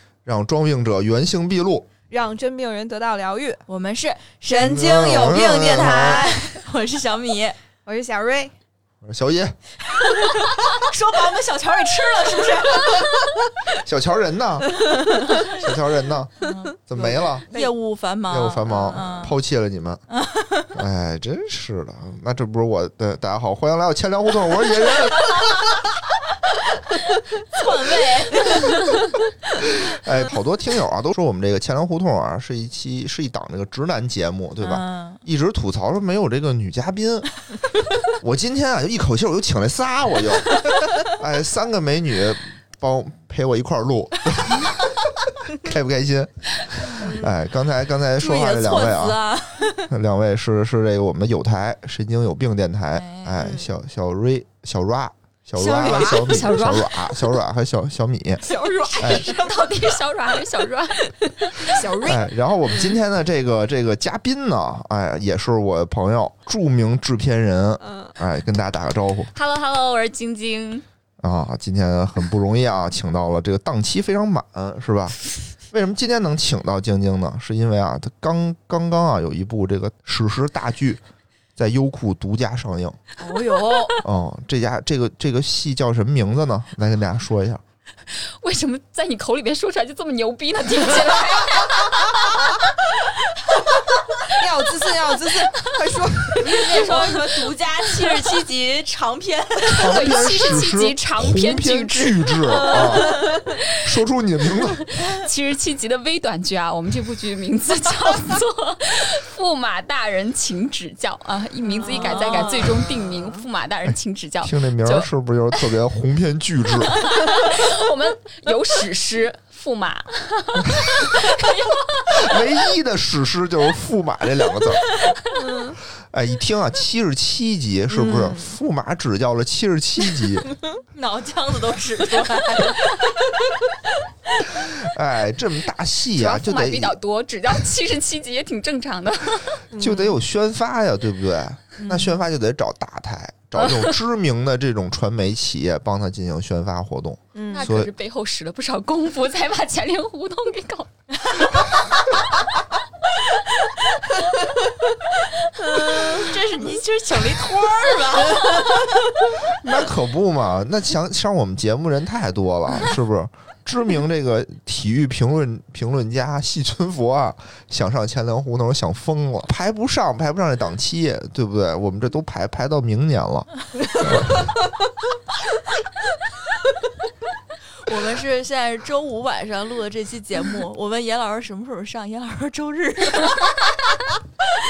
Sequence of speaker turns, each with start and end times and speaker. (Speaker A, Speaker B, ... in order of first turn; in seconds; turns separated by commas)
Speaker A: 0.2-1.9, Speaker B: 2.1-3.6, Speaker C: 3.7-7.5, Speaker B: 4.5-6.3, Speaker A: 4.6-6.3, Speaker B: 7.8-8.5, Speaker A: 9.0-9.6, Speaker C: 10.2-13.1, Speaker A: 13.8-14.8, Speaker A: 15.5-17.5, Speaker C: 16.4-16.8, Speaker B: 16.9-17.7, Speaker C: 17.5-19.4, Speaker A: 18.3-20.0, Speaker C: 20.1-20.7, Speaker A: 20.7-25.5, Speaker C: 27.4-29.1, Speaker A: 29.6-37.3, Speaker C: 34.6-35.2, Speaker A: 38.1-49.2, Speaker B: 47.0-47.2, Speaker C: 48.1-49.9, Speaker A: 49.9-59.2, Speaker C: 52.9-53.5, Speaker B: 53.4-53.7, Speaker C: 55.5-56.5, Speaker D: 56.2-57.1, Speaker B: 58.4-59.6, Speaker D: 58.8-61.1, Speaker B: 61.5-63.0, Speaker A: 62.0-69.3, Speaker B: 67.8-68.2, Speaker D: 69.3-70.8, Speaker A: 71.2-75.2, Speaker A: 75.7-81.0, Speaker A: 81.5-83.0, Speaker C: 83.2-84.0, Speaker A: 84.0-87.6, Speaker D: 88.1-92.9, Speaker B: 94.3-97.4, Speaker C: 96.4-100.0, Speaker A: 99.7-104.8, Speaker D: 99.7-103.8, Speaker D: 104.7-115.1, Speaker B: 111.6-113.5, Speaker C: 111.9-112.9, Speaker A: 114.4-117.0, Speaker D: 116.9-122.4, Speaker A: 122.1-125.0, Speaker B: 125.3-125.8, Speaker A: 126.1-130.5, Speaker B: 127.9-128.5, Speaker C: 130.9-133.3, Speaker A: 134.5-136.9, Speaker D: 136.1-139.6, Speaker B: 139.7-140.1, Speaker A: 139.7-147.9, Speaker B: 141.8-142.2, Speaker B: 147.3-147.7, Speaker D: 147.5-150.9, Speaker B: 155.6-156.3, Speaker C: 155.9-159.3, Speaker A: 159.5-174.5, Speaker C: 177.7-183.8